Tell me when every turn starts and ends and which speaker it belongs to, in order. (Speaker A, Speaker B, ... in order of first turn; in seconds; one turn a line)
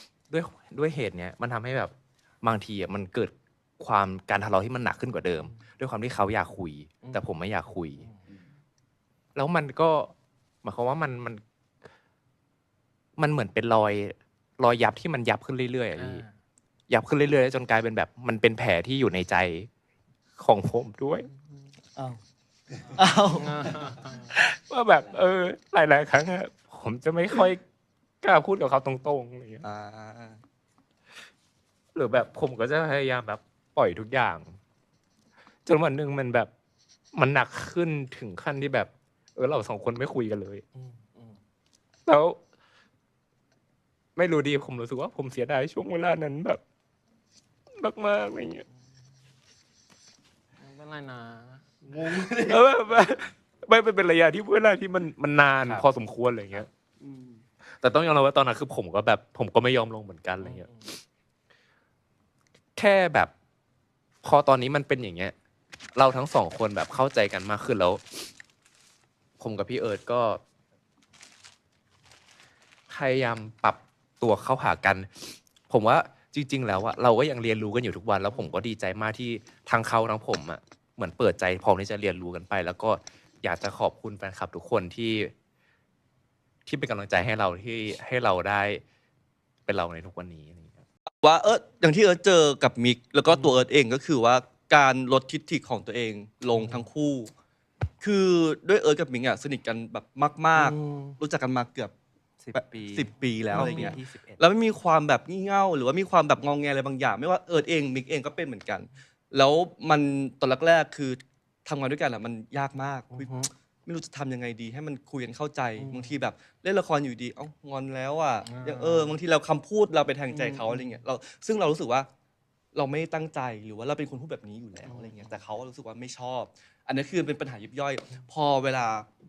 Speaker A: 0.3-8.1
Speaker A: 9.3-10.1
Speaker A: 10.6-11.4
Speaker A: 13.2-16.2
Speaker B: 15.9-16.3
Speaker A: 16.9-19.7
Speaker A: 20.4-21.3
Speaker C: 21.9-22.2
Speaker C: 22.9-23.8
Speaker B: 23.3-24.3
Speaker A: 24.3-27.6
Speaker A: 28.2-29.6
Speaker C: 29.6-30.4
Speaker A: 31.9-34.5
Speaker A: 35.6-36.5
Speaker A: 37.1-40.6
Speaker B: 40.8-41.4
Speaker A: 42.0-42.4
Speaker A: 44.1-46.6
Speaker A: 47.8-48.6
Speaker B: 50.6-52.1
Speaker A: 52.2-56.7
Speaker A: 57.8-60.7
Speaker B: 60.4-60.9
Speaker A: 62.8-63.3
Speaker A: 64.2-65.3
Speaker A: 65.9-68.2
Speaker A: 69.4-70.4
Speaker A: 72.9-85.3
Speaker A: 86.7-88.8
Speaker A: 89.7-90.8
Speaker C: 91.2-97.3
Speaker B: 93.3-93.7
Speaker B: 96.5-96.9
Speaker C: 98.0-101.9
Speaker B: 100.5-101.2
Speaker A: 102.4-104.4
Speaker C: 102.5-122.1
Speaker B: 103.5-104.0
Speaker B: 113.1-113.5
Speaker B: 115.8-116.2
Speaker B: 118.4-119.1
Speaker B: 120.3-121.0
Speaker C: 122.7-129.1
Speaker B: 124.8-125.3